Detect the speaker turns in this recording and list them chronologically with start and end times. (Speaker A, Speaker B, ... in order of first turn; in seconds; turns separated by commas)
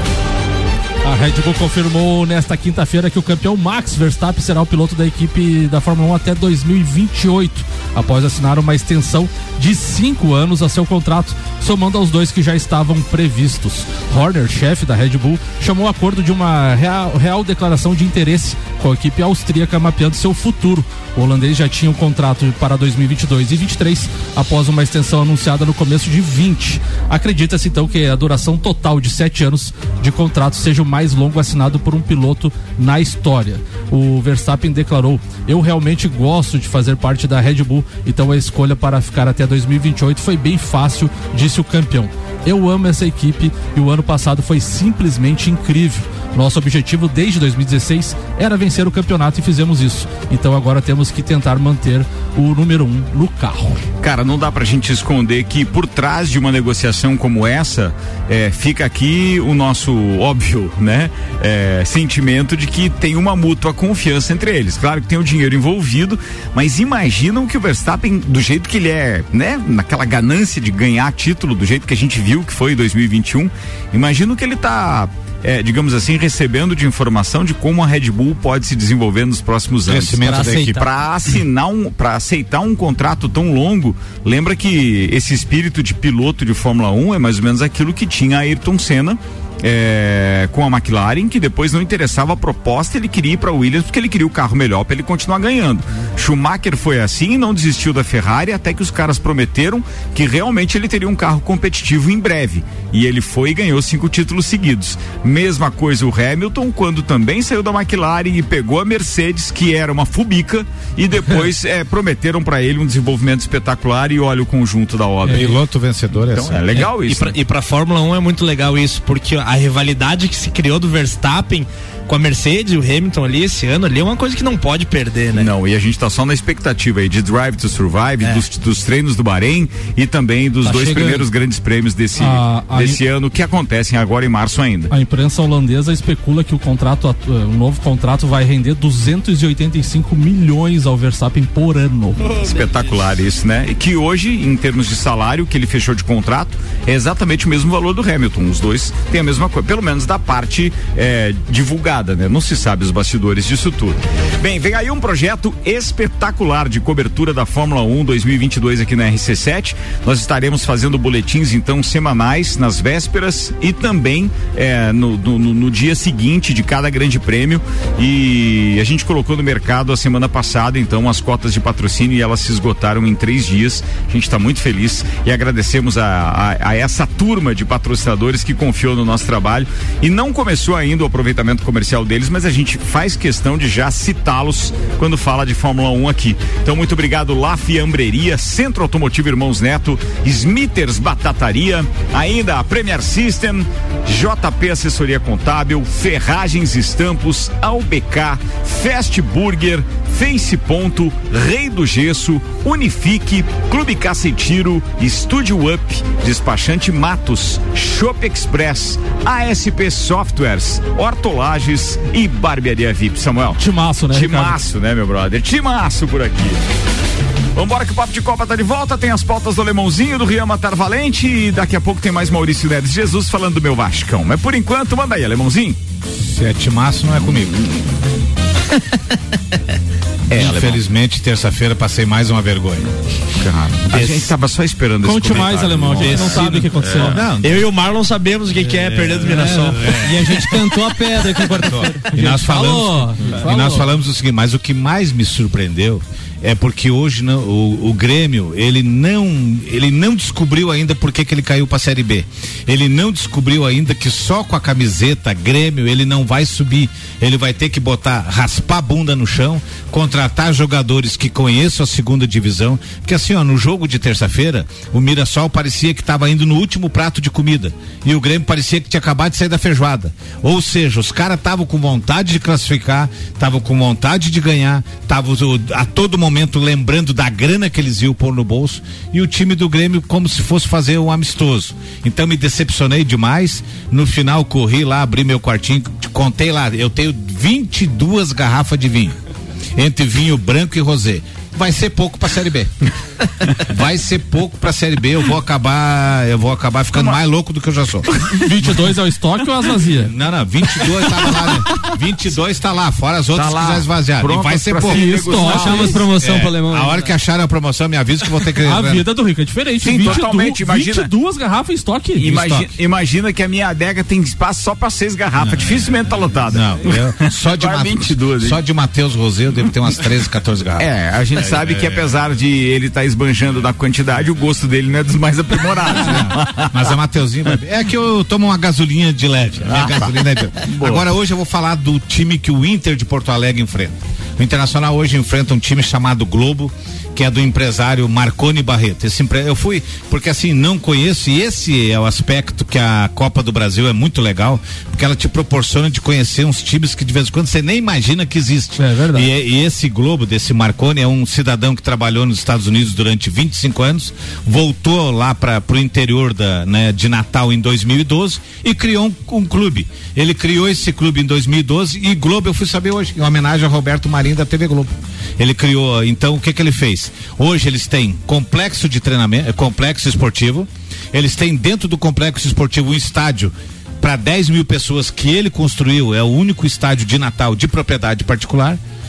Speaker A: 1.0-53.8, Speaker B: 54.0-115.6, Speaker C: 79.8-80.8, Speaker D: 80.2-80.8, Speaker C: 115.3-116.7, Speaker B: 116.3-117.3, Speaker E: 116.8-125.5, Speaker B: 125.3-134.9, Speaker D: 130.6-131.2, Speaker A: 132.2-133.0, Speaker A: 134.9-142.3, Speaker B: 142.3-213.6, Speaker A: 213.6-214.6, Speaker B: 214.1-216.6, Speaker B: 217.6-225.8, Speaker C: 226.2-227.6, Speaker B: 230.3-230.8, Speaker C: 230.3-232.9, Speaker B: 233.4-237.5, Speaker C: 233.9-234.3, Speaker A: 235.0-237.2, Speaker E: 236.0-236.7, Speaker C: 237.0-237.4, Speaker E: 237.4-240.0, Speaker D: 239.3-243.8, Speaker C: 239.8-240.1, Speaker C: 241.6-289.1, Speaker A: 242.2-242.8, Speaker A: 243.4-243.9, Speaker C: 289.8-292.7, Speaker C: 293.6-298.1, Speaker B: 296.9-297.2, Speaker B: 298.1-298.5, Speaker A: 298.4-300.1, Speaker C: 300.0-309.1, Speaker B: 303.3-306.0, Speaker A: 304.9-306.0, Speaker D: 305.0-307.1, Speaker A: 308.6-312.7, Speaker B: 309.8-311.1, Speaker B: 312.2-318.6, Speaker C: 315.4-315.8, Speaker C: 316.5-322.1, Speaker B: 320.8-326.8, Speaker C: 325.9-378.8, Speaker B: 329.7-331.1, Speaker A: 348.8-349.3